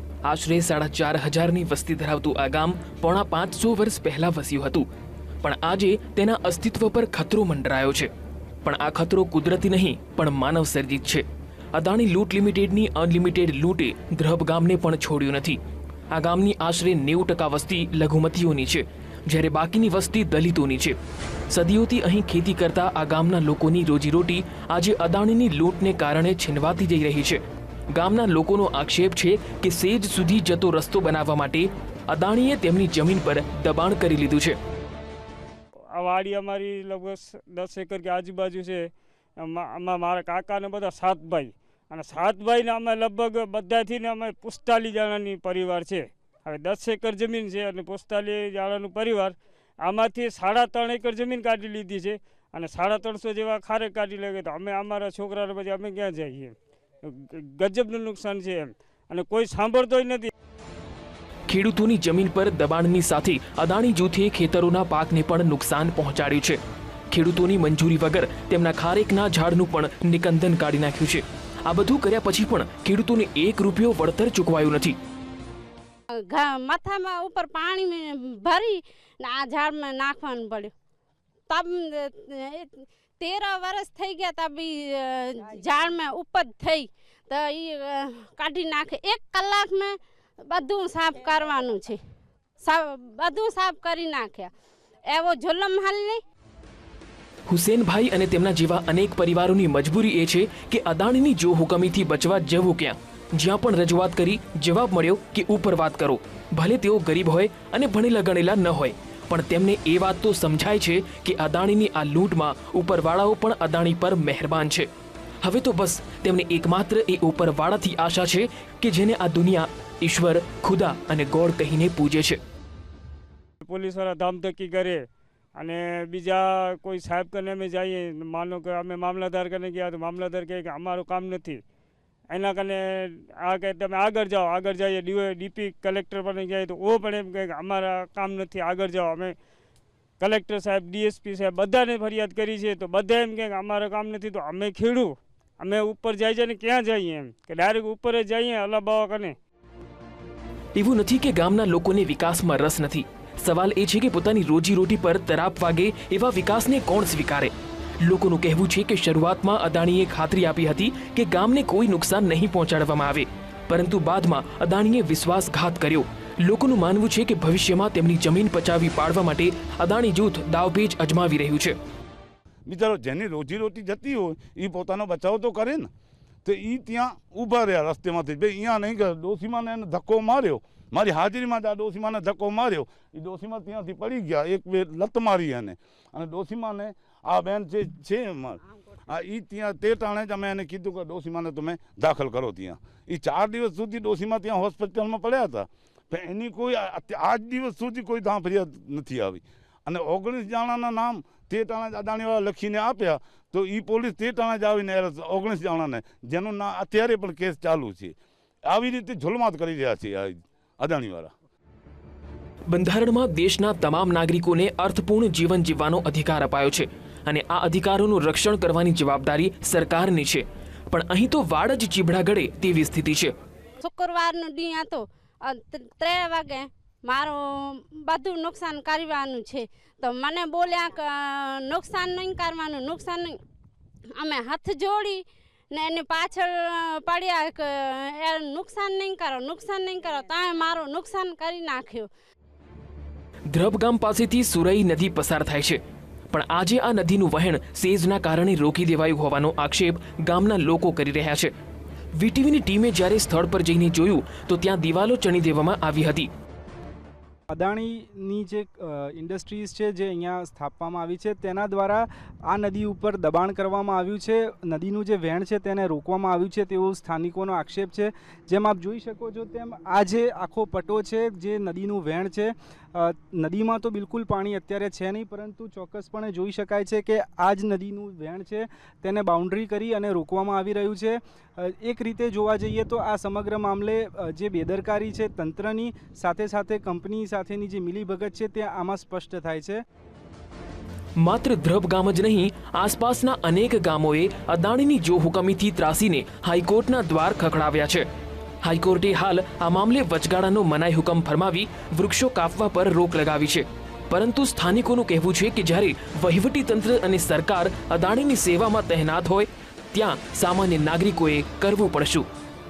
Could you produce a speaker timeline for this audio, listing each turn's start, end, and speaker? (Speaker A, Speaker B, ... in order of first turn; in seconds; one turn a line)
Speaker A: 0.2-4.9
Speaker A: 5.4-8.1
Speaker A: 8.6-15.6
Speaker A: 16.1-21.0
Speaker A: 21.5-34.6
Speaker B: 35.9-60.3
Speaker A: 61.5-75.0
Speaker C: 76.1-80.7
Speaker C: 81.5-92.0
Speaker C: 92.6-94.5
Speaker C: 95.1-96.2
Speaker A: 97.5-114.9
Speaker A: 115.4-122.4
Speaker B: 123.6-131.6
Speaker B: 132.3-139.3
Speaker B: 140.2-149.4
Speaker A: 150.8-171.8
Speaker D: 172.7-175.9
Speaker D: 176.4-208.2
Speaker D: 208.7-211.3
Speaker A: 212.7-223.3
Speaker C: 223.8-233.4
Speaker C: 234.2-242.1
Speaker A: 243.5-251.5
Speaker A: 252.2-256.3
Speaker E: 257.5-289.8
Speaker A: 291.2-298.1
Speaker A: 298.6-312.3